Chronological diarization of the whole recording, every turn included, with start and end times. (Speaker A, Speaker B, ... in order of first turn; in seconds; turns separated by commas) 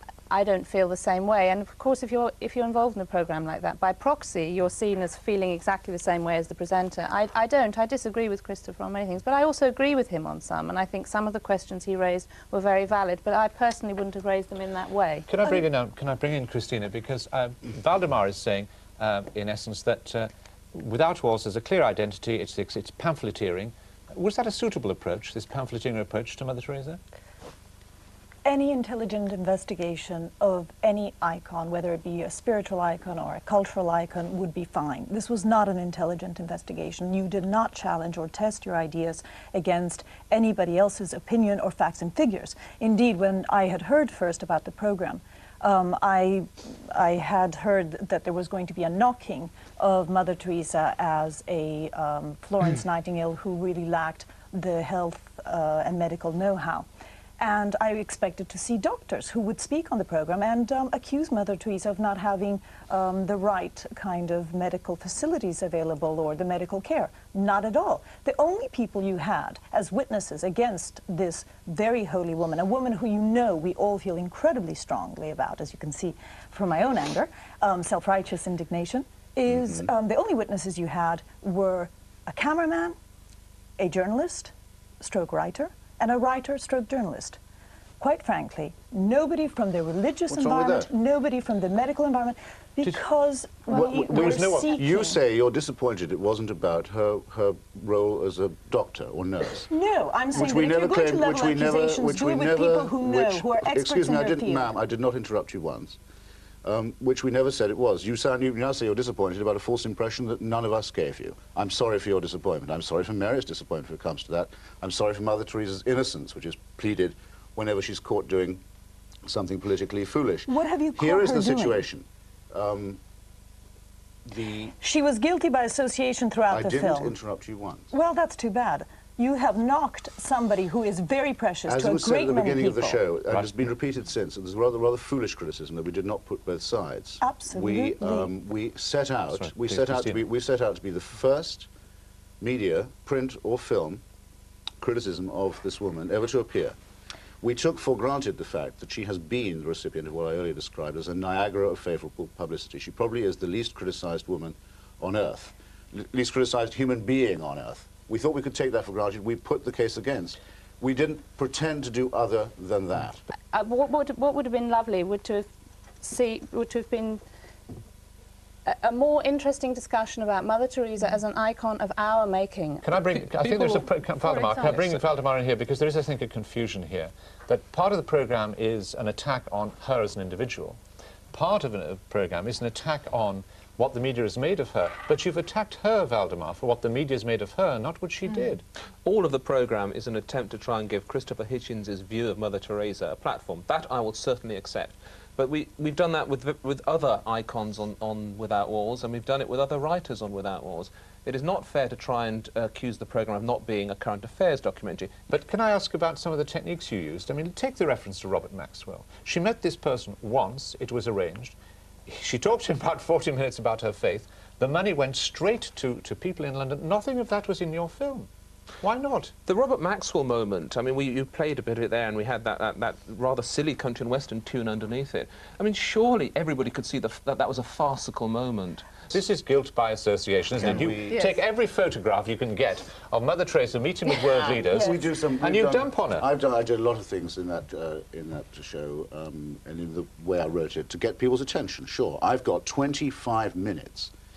Speaker A: 0.3-15.6, Speaker B: 15.3-27.0, Speaker C: 28.4-56.9, Speaker C: 57.4-83.0, Speaker D: 79.5-79.9, Speaker C: 83.8-87.4, Speaker C: 88.0-95.2, Speaker D: 90.3-90.9, Speaker D: 93.7-99.7, Speaker B: 93.9-94.8, Speaker C: 99.7-104.7, Speaker D: 100.3-106.0, Speaker D: 106.6-118.6, Speaker D: 119.3-123.0, Speaker C: 120.5-121.9, Speaker D: 124.3-124.7, Speaker C: 124.8-127.2, Speaker D: 126.5-127.9, Speaker C: 127.9-133.0, Speaker D: 131.7-141.7, Speaker B: 133.3-133.7, Speaker C: 137.2-138.3, Speaker B: 139.3-140.2, Speaker D: 142.4-144.0, Speaker D: 144.8-146.7, Speaker D: 147.4-163.2, Speaker A: 163.5-165.5, Speaker A: 166.0-167.2, Speaker A: 168.7-174.9, Speaker B: 172.8-180.8, Speaker B: 181.3-188.6, Speaker E: 189.0-205.3, Speaker B: 205.3-211.6, Speaker B: 212.1-218.3, Speaker B: 218.8-219.3, Speaker E: 219.4-229.0, Speaker B: 229.1-236.3, Speaker D: 230.5-231.3, Speaker C: 234.1-235.1, Speaker D: 234.3-244.1